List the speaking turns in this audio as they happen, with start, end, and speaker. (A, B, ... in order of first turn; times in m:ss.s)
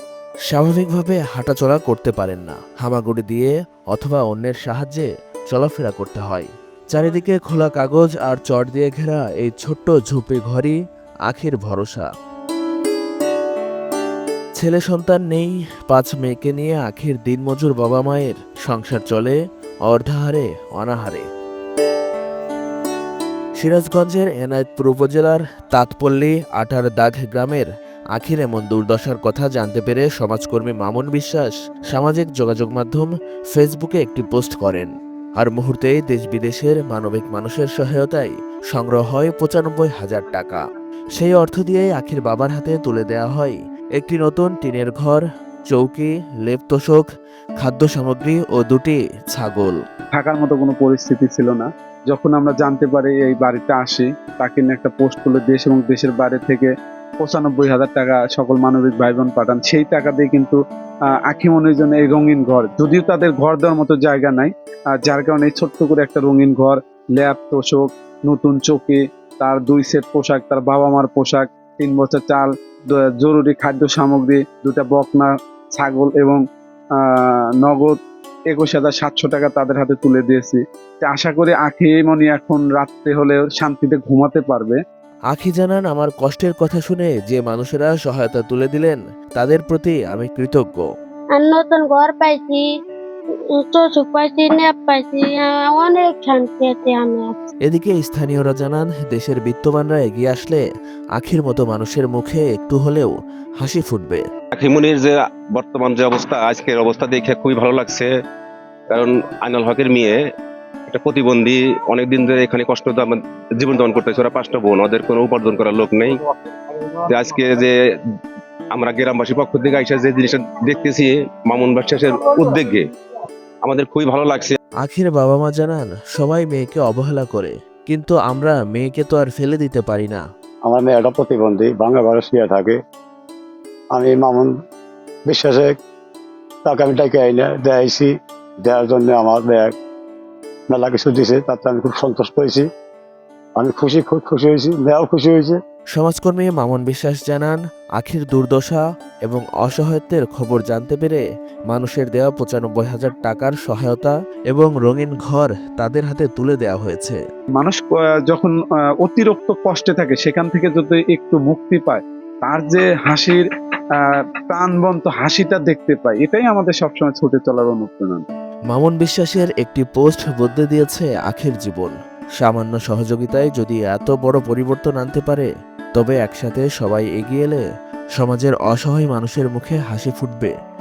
0:00.5-0:12.1 A
0:14.6-0:21.3 A
0:23.6-0:40.6 A
0:41.2-0:47.1 A
0:47.6-0:49.8 A
0:50.2-1:00.6 B
1:01.3-1:16.4 B
1:17.0-1:18.0 B
1:18.5-1:24.8 B
1:25.3-1:30.8 A
1:31.4-1:32.6 C
1:33.7-1:37.4 C
1:37.7-1:40.6 A
1:41.2-1:44.2 A
1:44.5-1:48.1 D
1:48.9-1:50.2 D
1:50.9-1:56.2 D
1:57.1-1:57.7 D
1:58.7-2:02.9 D
2:03.6-2:04.6 D
2:04.8-2:10.2 A
2:10.7-2:12.8 E
2:13.9-2:14.5 E
2:15.3-2:15.7 E
2:16.6-2:18.1 E
2:18.6-2:19.8 E
2:20.7-2:22.7 E
2:23.6-2:25.6 E
2:26.0-2:37.2 A
2:37.6-2:43.4 B
2:44.0-2:48.2 B
2:48.7-2:57.6 A
2:58.2-3:00.5 A